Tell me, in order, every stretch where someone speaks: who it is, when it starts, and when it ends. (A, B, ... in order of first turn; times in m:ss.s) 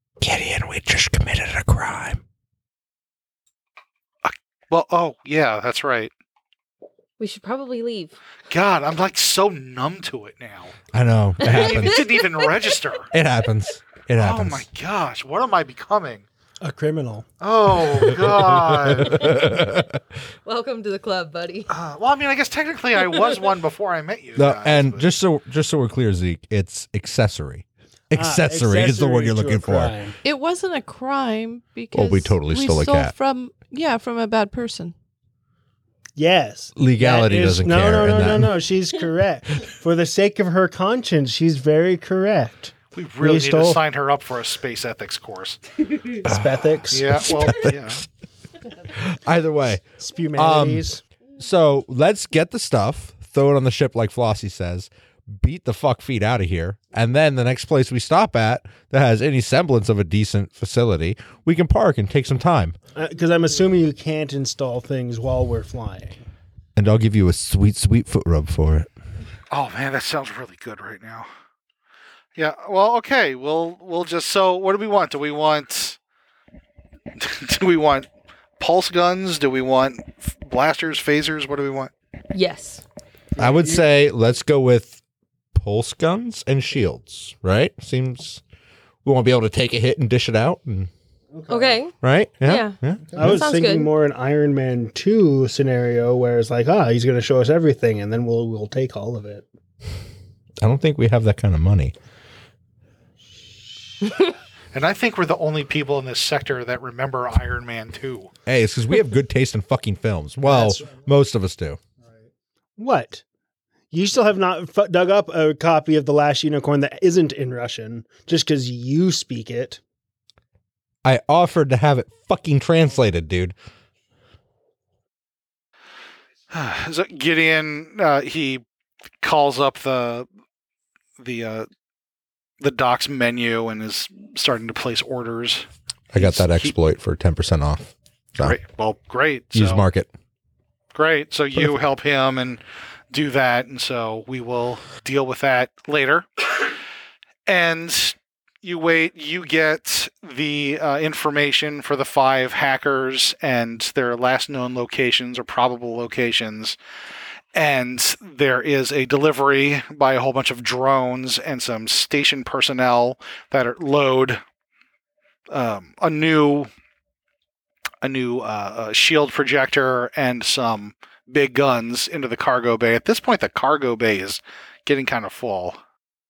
0:00.2-0:02.2 A
0:04.2-0:06.1 B
0:07.2-0:08.2 C
0:08.5-0:10.8 B
0:10.9-0:12.1 A
0:11.4-0:12.2 C
0:11.4-0:13.1 B
0:13.1-0:14.7 A
0:14.2-0:16.2 B
0:16.6-0:17.2 D
0:17.4-0:19.2 B
0:18.2-0:20.0 A
0:20.4-0:21.7 C
0:21.7-0:25.1 B
0:24.4-0:30.0 A
0:28.1-0:30.2 D
0:30.2-0:34.9 E
0:31.9-0:33.1 A
0:36.2-0:43.8 D
0:36.8-0:38.6 A
0:43.0-0:45.6 B
0:46.1-0:47.3 D
0:46.2-0:48.0 A
0:46.9-0:48.0 B
0:48.8-0:49.8 A
0:50.0-0:51.0 D
0:50.4-1:02.8 A
1:02.9-1:06.2 D
1:06.8-1:08.9 A
1:09.5-1:11.3 B
1:12.4-1:16.0 B
1:17.2-1:18.1 B
1:18.6-1:21.9 B
1:22.3-1:22.8 C
1:23.4-1:23.8 D
1:23.4-1:25.0 A
1:25.5-1:28.4 A
1:29.0-1:30.9 A
1:31.3-1:31.8 D
1:31.5-1:33.9 C
1:32.0-1:33.4 A
1:33.1-1:39.5 D
1:40.6-1:41.9 A
1:44.7-1:48.3 B
1:48.4-1:51.8 A
1:50.4-1:50.9 D
1:52.8-1:53.2 D
1:53.9-1:59.8 D
2:01.0-2:03.5 A
2:06.5-2:08.6 B
2:09.2-2:10.3 B
2:11.2-2:11.7 B
2:12.6-2:16.7 B
2:16.1-2:18.6 A
2:18.4-2:19.8 B
2:19.5-2:20.1 A
2:20.9-2:26.7 B
2:27.5-2:36.8 B
2:37.5-2:44.4 B
2:45.5-2:46.7 B
2:48.0-2:55.8 B